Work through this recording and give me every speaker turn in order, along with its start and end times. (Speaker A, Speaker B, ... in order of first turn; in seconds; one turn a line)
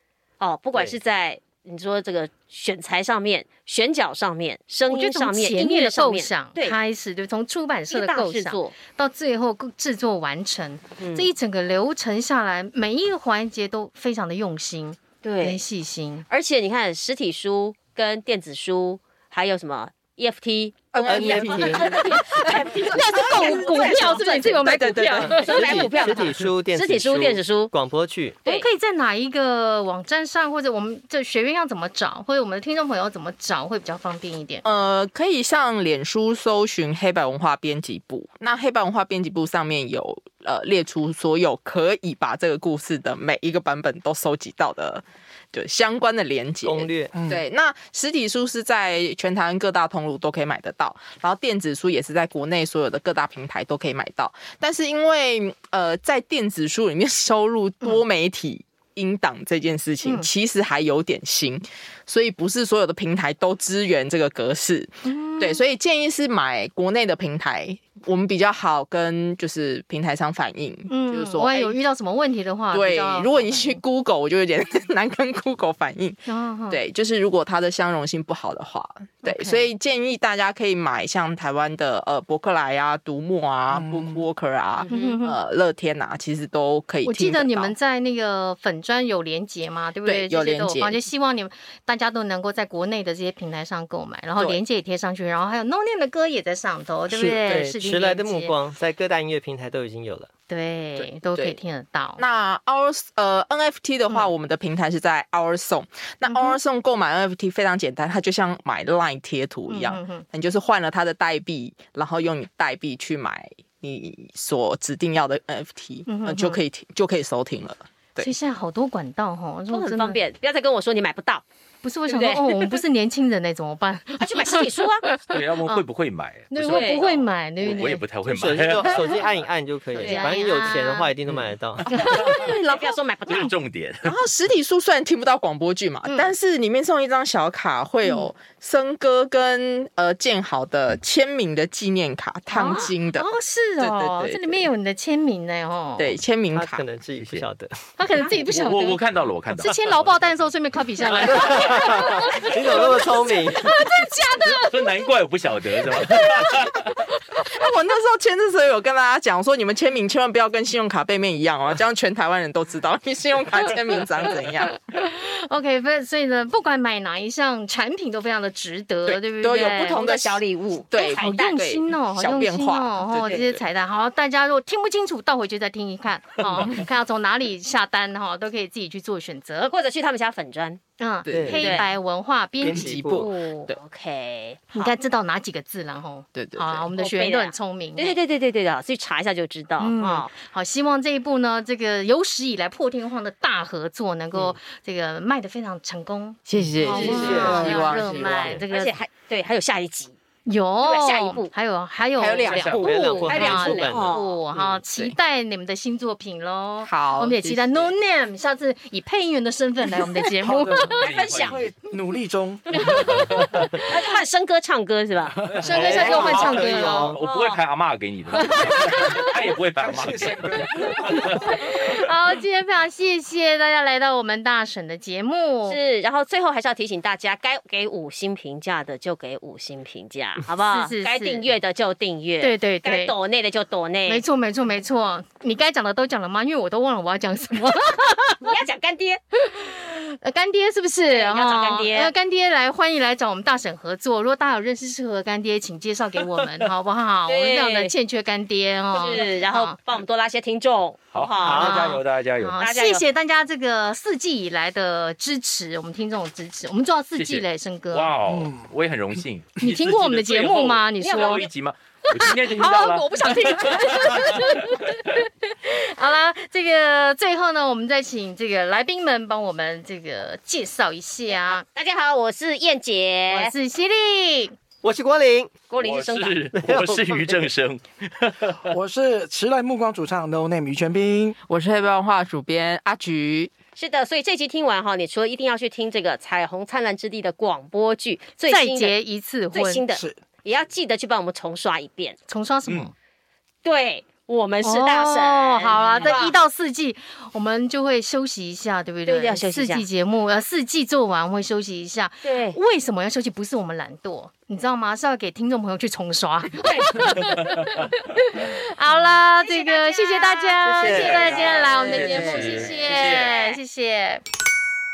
Speaker A: 0.4-6.8
Speaker B: 4.9-16.2
Speaker A: 7.9-8.7
Speaker A: 11.0-11.3
Speaker A: 15.2-15.6
Speaker A: 16.3-27.7
Speaker C: 20.9-26.1
Speaker D: 21.0-21.9
Speaker B: 22.7-25.9
Speaker D: 25.2-28.4
Speaker B: 28.4-34.6
Speaker C: 34.6-71.8
Speaker D: 46.6-47.1
Speaker E: 47.1-47.4
Speaker B: 65.0-65.6
Speaker B: 70.9-73.8
Speaker C: 72.7-87.7
Speaker B: 76.3-76.8
Speaker B: 79.2-79.7
Speaker E: 83.7-84.2
Speaker A: 84.8-85.2
Speaker B: 84.9-85.4
Speaker B: 87.0-98.5
Speaker C: 90.0-91.0
Speaker C: 97.1-97.7
Speaker D: 97.2-100.3
Speaker B: 100.5-102.2
Speaker C: 101.0-101.6
Speaker C: 102.2-118.3
Speaker B: 106.3-106.6
Speaker B: 109.7-110.2
Speaker B: 116.1-116.6
Speaker B: 118.2-120.2
Speaker A: 119.7-121.4
Speaker B: 121.8-125.8
Speaker A: 122.1-122.8
Speaker A: 124.2-125.1
Speaker F: 125.2-129.1
Speaker B: 126.5-128.0
Speaker A: 126.6-127.0
Speaker D: 128.2-131.9
Speaker A: 129.9-131.1
Speaker B: 130.0-131.1
Speaker F: 131.8-132.5
Speaker B: 131.9-132.5
Speaker C: 132.1-133.0
Speaker A: 132.3-133.5
Speaker F: 133.2-134.1
Speaker C: 134.0-143.2
Speaker B: 136.1-136.3
Speaker B: 138.0-138.3
Speaker B: 142.5-146.2
Speaker A: 142.6-142.9
Speaker C: 143.8-144.7
Speaker C: 146.0-146.8
Speaker D: 146.5-147.8
Speaker F: 147.2-147.5
Speaker B: 148.0-149.0
Speaker F: 148.4-150.4
Speaker B: 149.5-155.1
Speaker F: 151.1-152.9
Speaker D: 151.2-153.7
Speaker F: 154.4-157.0
Speaker B: 155.9-157.0
Speaker C: 157.3-164.7
Speaker B: 164.6-170.0
Speaker C: 169.1-173.6
Speaker A: 169.5-171.5
Speaker B: 171.0-179.7
Speaker A: 173.2-173.4
Speaker F: 176.5-176.8
Speaker A: 179.7-180.8
Speaker B: 181.0-183.7
Speaker C: 181.2-181.8
Speaker D: 181.3-181.7
Speaker A: 181.5-181.8
Speaker C: 182.6-183.8
Speaker D: 182.6-183.2
Speaker A: 183.7-184.9
Speaker B: 184.7-188.2
Speaker C: 186.3-186.9
Speaker A: 187.0-190.3
Speaker B: 189.8-198.9
Speaker C: 196.4-198.6
Speaker A: 196.8-200.2
Speaker D: 197.1-197.6
Speaker B: 200.4-211.1
Speaker A: 200.8-201.5
Speaker C: 202.2-204.1
Speaker F: 202.4-202.9
Speaker A: 202.8-204.4
Speaker D: 202.8-204.1
Speaker C: 206.8-207.9
Speaker E: 210.2-213.3
Speaker F: 210.8-211.7
Speaker A: 211.1-211.7
Speaker B: 212.7-213.8
Speaker F: 212.8-213.8
Speaker A: 213.8-215.3
Speaker E: 215.3-215.7
Speaker F: 215.5-222.1
Speaker B: 215.6-217.2
Speaker D: 215.6-217.2
Speaker A: 215.9-216.4
Speaker A: 217.2-217.6
Speaker B: 218.3-219.3
Speaker E: 219.8-221.5
Speaker B: 221.2-225.8
Speaker A: 225.7-234.2
Speaker B: 230.6-231.4
Speaker B: 232.4-233.1
Speaker B: 234.1-238.4
Speaker A: 238.4-239.2
Speaker B: 239.4-249.8
Speaker A: 241.1-242.1
Speaker A: 247.3-247.9
Speaker A: 248.9-252.0
Speaker F: 251.1-252.6
Speaker B: 251.4-258.1
Speaker A: 252.6-253.0
Speaker F: 257.1-265.1
Speaker E: 258.2-258.7
Speaker B: 259.6-261.5
Speaker A: 261.0-261.5
Speaker B: 262.1-271.6
Speaker A: 271.4-273.5
Speaker B: 273.3-274.6
Speaker D: 274.8-275.5
Speaker A: 275.7-276.4
Speaker F: 275.8-278.7
Speaker D: 276.5-277.5
Speaker E: 278.6-281.4
Speaker C: 281.5-283.5
Speaker A: 283.7-288.9
Speaker B: 288.4-289.8
Speaker A: 289.5-292.2
Speaker E: 289.9-290.2
Speaker B: 292.3-292.9
Speaker A: 293.6-296.4
Speaker B: 294.6-314.2
Speaker A: 299.1-299.8
Speaker A: 302.2-302.6
Speaker A: 306.6-307.0
Speaker F: 307.6-307.8
Speaker A: 308.9-313.6
Speaker D: 310.6-311.4
Speaker F: 310.8-313.3